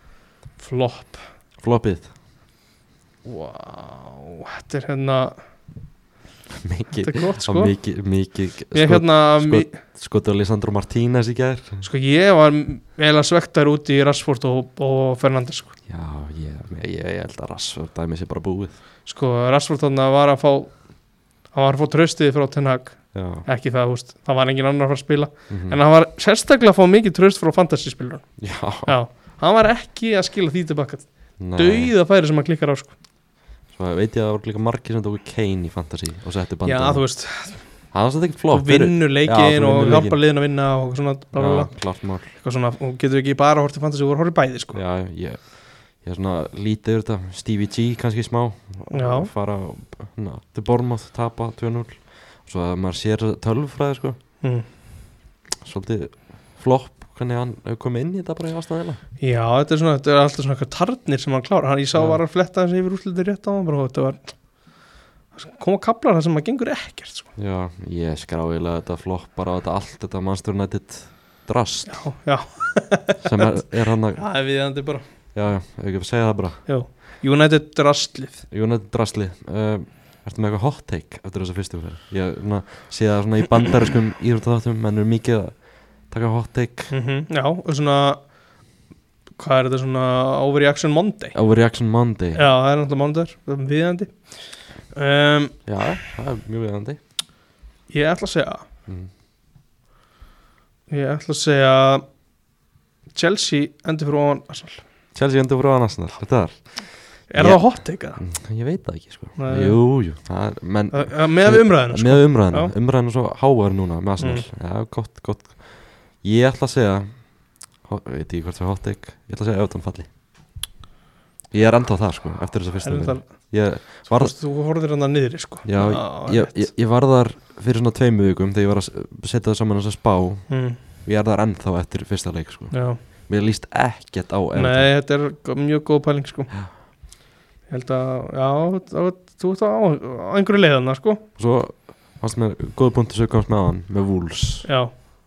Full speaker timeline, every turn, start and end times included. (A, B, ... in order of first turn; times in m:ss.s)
0:00.6-0:01.3 A
0:01.6-0:02.1 B
0:03.2-0:05.5 A
0:06.6-0:11.9 B
0:06.9-0:07.8 A
0:08.7-0:09.8 A
0:11.8-0:15.7 A
0:15.9-0:18.8 B
0:19.0-0:20.9 A
0:21.5-0:33.0 A
0:23.1-0:23.5 B
0:25.5-0:25.8 B
0:28.4-0:29.0 B
0:31.4-0:31.9 B
0:33.7-0:40.2 B
0:36.6-0:38.0 A
0:38.5-0:44.8 A
0:41.3-0:42.4 B
0:44.7-0:54.2 B
0:48.9-0:49.3 A
0:54.4-0:54.7 A
0:55.6-0:59.0 B
0:59.2-1:07.3 A
1:01.9-1:02.2 B
1:07.4-1:12.4 B
1:11.9-1:15.1 A
1:13.2-1:14.4 B
1:15.3-1:16.7 B
1:16.7-1:18.5 A
1:18.5-1:26.9 B
1:26.9-1:28.4 A
1:29.4-1:31.4 A
1:31.3-1:32.4 B
1:32.3-1:35.7 A
1:35.6-1:37.0 B
1:37.9-1:38.6 A
1:40.9-1:42.0 A
1:43.2-1:44.8 A
1:45.1-2:00.1 B
1:47.3-1:48.2 A
1:49.4-1:49.9 A
1:50.9-1:52.7 A
1:54.2-1:54.5 A
2:01.5-2:04.4 B
2:02.8-2:06.7 A
2:05.6-2:14.9 B
2:10.5-2:10.8 A
2:12.7-2:13.0 A
2:14.5-2:16.8 A
2:17.7-2:21.2 A
2:21.4-2:24.7 B
2:24.6-2:24.9 A